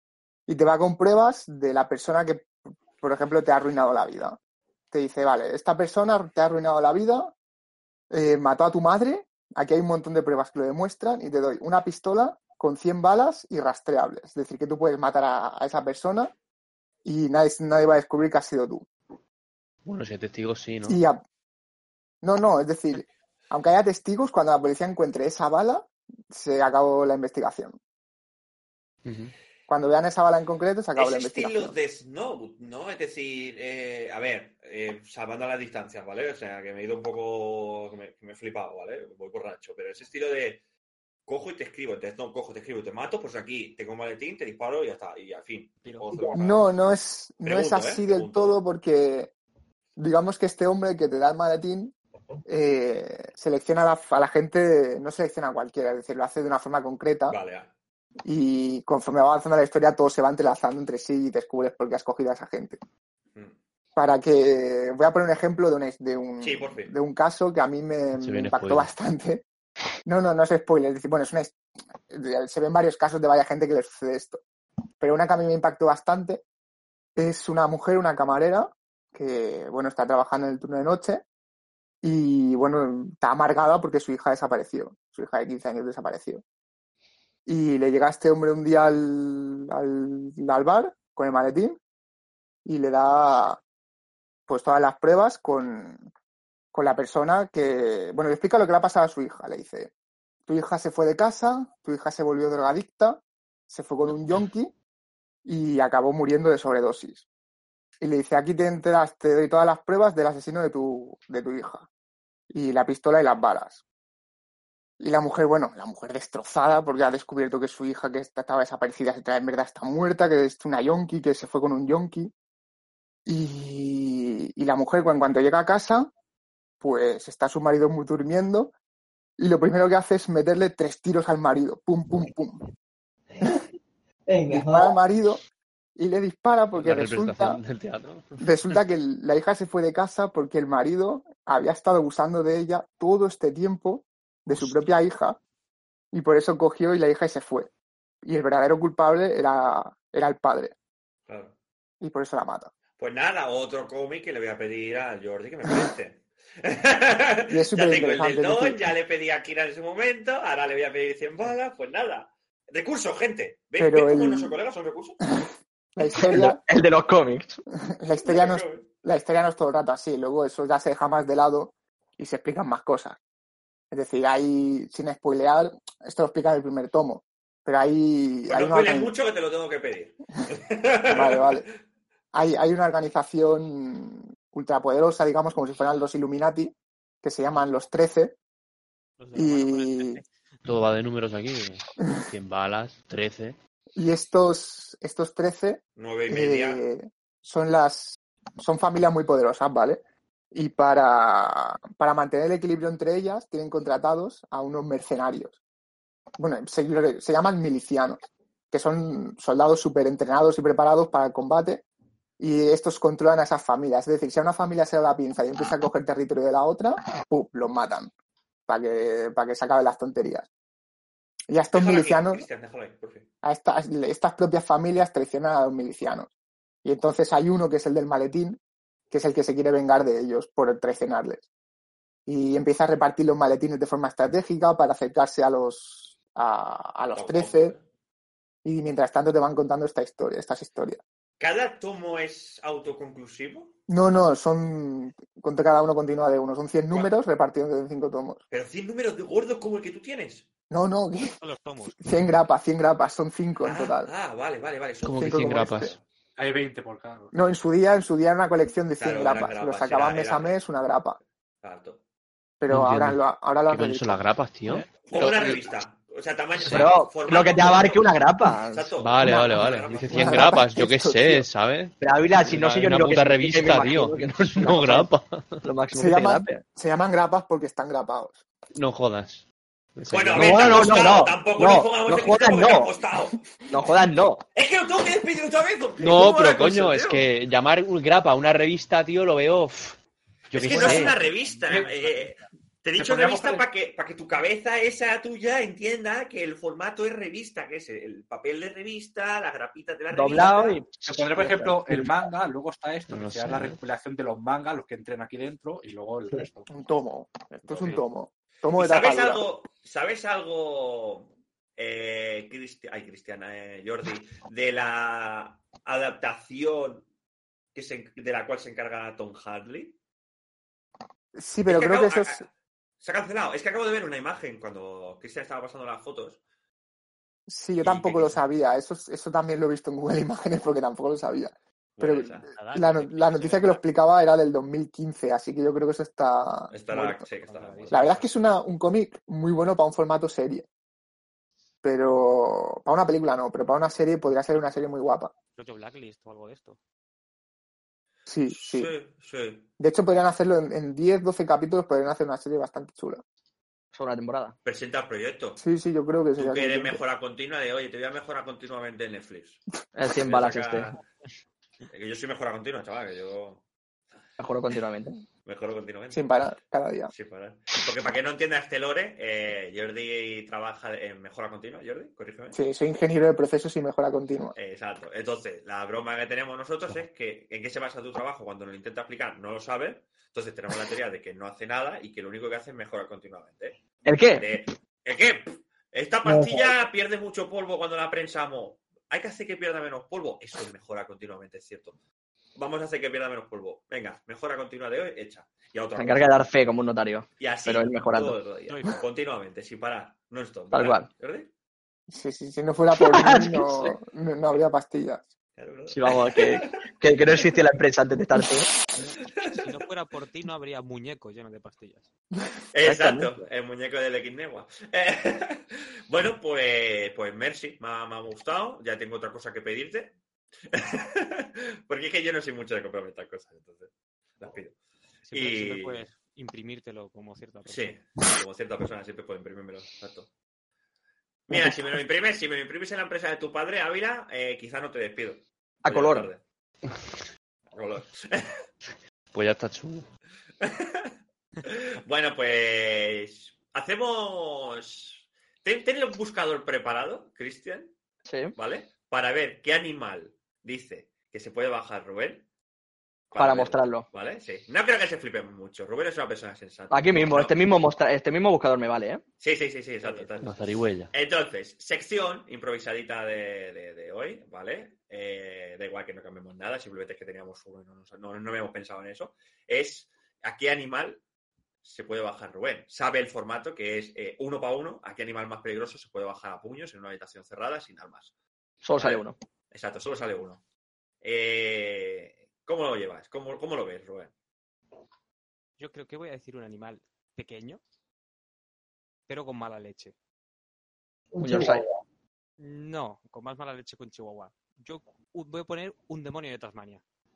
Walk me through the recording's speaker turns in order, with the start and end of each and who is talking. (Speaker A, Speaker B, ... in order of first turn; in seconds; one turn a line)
Speaker A: 0.5-4.4
Speaker A: 4.9-7.3
Speaker A: 8.1-16.3
Speaker A: 17.1-18.9
Speaker B: 19.9-21.0
Speaker A: 20.9-21.2
Speaker A: 22.2-27.8
Speaker B: 29.1-29.3
Speaker A: 29.7-31.7
Speaker C: 31.0-40.6
Speaker C: 41.3-46.6
Speaker D: 45.8-46.2
Speaker A: 46.3-49.3
Speaker C: 47.4-48.6
Speaker A: 50.0-51.9
Speaker A: 52.5-57.4
Speaker C: 57.3-57.7
Speaker A: 58.2-62.8
Speaker A: 64.0-69.4
Speaker C: 66.4-66.9
Speaker B: 68.2-68.9
Speaker A: 70.0-71.6
Speaker A: 72.1-74.4
Speaker A: 75.0-76.4
Speaker A: 77.2-81.2
Speaker A: 82.0-86.4
Speaker A: 87.5-91.8
Speaker A: 92.7-93.6
Speaker A: 94.5-96.1
Speaker A: 96.7-99.9
Speaker A: 100.5-104.7
Speaker A: 105.5-107.2
Speaker A: 108.0-111.9
Speaker A: 112.5-113.8
Speaker A: 115.0-122.3
Speaker A: 123.3-126.1
Speaker A: 126.8-128.7
Speaker A: 129.4-132.6
Speaker E: 133.4-133.6
Speaker E: 134.3-135.0
Speaker A: 134.5-135.4
Speaker A: 136.0-137.6
Speaker B: 136.7-138.8
Speaker A: 138.4-145.4
Speaker A: 146.1-147.7
Speaker A: 148.2-150.7
Speaker C: 151.3-151.5
Speaker A: 152.0-152.7
Speaker C: 153.0-165.2
Speaker A: 157.5-158.8
Speaker A: 163.8-164.6
Speaker A: 165.4-166.6
Speaker F: 166.2-167.6
Speaker A: 167.9-173.2
Speaker C: 168.2-168.9
Speaker A: 173.9-179.1
Speaker C: 178.5-181.7
Speaker A: 181.1-181.7
Speaker A: 182.3-188.3
Speaker D: 189.2-190.3
Speaker A: 189.3-190.2
Speaker B: 190.7-193.6
Speaker A: 194.0-205.6
Speaker C: 196.0-196.8
Speaker A: 206.4-211.8
Speaker A: 212.4-218.1
Speaker A: 218.7-220.5
Speaker A: 221.5-222.4
Speaker C: 221.7-223.3
Speaker A: 223.4-226.3
Speaker A: 226.8-228.6
Speaker A: 229.1-231.5
Speaker A: 232.3-237.8
Speaker C: 237.1-237.8
Speaker A: 238.7-241.0
Speaker C: 241.4-243.7
Speaker A: 243.9-248.4
Speaker C: 248.5-250.5
Speaker A: 250.7-251.4
Speaker D: 251.4-252.0
Speaker A: 252.0-254.1
Speaker C: 253.6-256.0
Speaker B: 255.0-255.9
Speaker A: 255.2-255.9
Speaker G: 256.4-257.3
Speaker A: 257.3-261.2
Speaker C: 259.0-260.6
Speaker C: 261.6-262.0
Speaker A: 262.6-264.3
Speaker B: 262.7-265.3
Speaker C: 265.1-268.1
Speaker F: 266.6-268.9
Speaker C: 268.7-270.5
Speaker B: 269.0-275.6
Speaker A: 269.2-271.5
Speaker F: 272.0-275.1
Speaker F: 275.6-276.6
Speaker A: 275.9-278.4
Speaker B: 278.8-281.0
Speaker C: 280.1-283.4
Speaker F: 280.4-282.9
Speaker F: 283.7-284.4
Speaker C: 284.6-287.3
Speaker B: 286.0-290.0
Speaker G: 290.5-292.1
Speaker B: 290.5-291.1
Speaker C: 290.5-300.8
Speaker G: 293.0-293.7
Speaker F: 300.1-302.1
Speaker G: 301.1-306.7
Speaker B: 303.1-303.8
Speaker A: 306.7-309.5
Speaker D: 307.8-308.0
Speaker C: 308.8-317.1
Speaker C: 317.7-320.0
Speaker A: 321.4-322.4
Speaker C: 321.7-322.5
Speaker C: 323.0-326.4
Speaker A: 327.5-337.2
Speaker C: 327.8-328.3
Speaker C: 332.0-332.5
Speaker D: 332.5-333.8
Speaker C: 336.7-338.3
Speaker D: 337.4-338.3
Speaker A: 337.9-340.7
Speaker A: 341.8-345.3
Speaker D: 345.6-346.8
Speaker A: 348.3-348.9
Speaker C: 348.5-349.7
Speaker A: 349.8-353.2
Speaker F: 353.9-354.6
Speaker C: 354.6-355.6
Speaker A: 355.6-357.0
Speaker C: 356.4-359.6
Speaker F: 359.9-360.9
Speaker C: 360.2-361.0
Speaker C: 361.9-363.6
Speaker F: 364.4-365.2
Speaker C: 365.5-366.2
Speaker A: 366.1-367.1
Speaker C: 367.1-372.6
Speaker A: 372.5-374.6
Speaker C: 374.6-383.8
Speaker F: 384.1-384.5
Speaker C: 384.3-391.9
Speaker E: 386.3-386.7
Speaker C: 392.6-396.4
Speaker F: 395.9-398.4
Speaker C: 397.4-401.5
Speaker D: 398.7-399.0
Speaker F: 400.7-401.1
Speaker A: 402.1-405.2
Speaker F: 403.0-404.0
Speaker C: 405.6-406.8
Speaker F: 405.9-408.7
Speaker D: 409.0-412.1
Speaker C: 412.7-420.1
Speaker F: 412.8-413.4
Speaker C: 420.7-424.8
Speaker D: 425.3-428.0
Speaker C: 425.3-426.1
Speaker C: 427.7-430.3
Speaker C: 431.5-436.4
Speaker F: 431.5-431.8
Speaker F: 435.8-436.3
Speaker C: 437.7-438.6
Speaker B: 439.3-440.1
Speaker C: 440.6-441.1
Speaker C: 441.6-447.9
Speaker F: 448.3-448.6
Speaker C: 448.6-452.4
Speaker C: 453.3-457.6
Speaker F: 453.4-454.1
Speaker F: 456.9-459.2
Speaker C: 459.4-471.2
Speaker B: 460.4-461.1
Speaker C: 471.8-478.3
Speaker F: 478.8-479.4
Speaker C: 479.0-480.6
Speaker C: 481.2-484.3
Speaker D: 485.8-487.8
Speaker D: 489.3-490.1
Speaker E: 491.3-492.0
Speaker F: 491.4-491.9
Speaker D: 492.6-497.0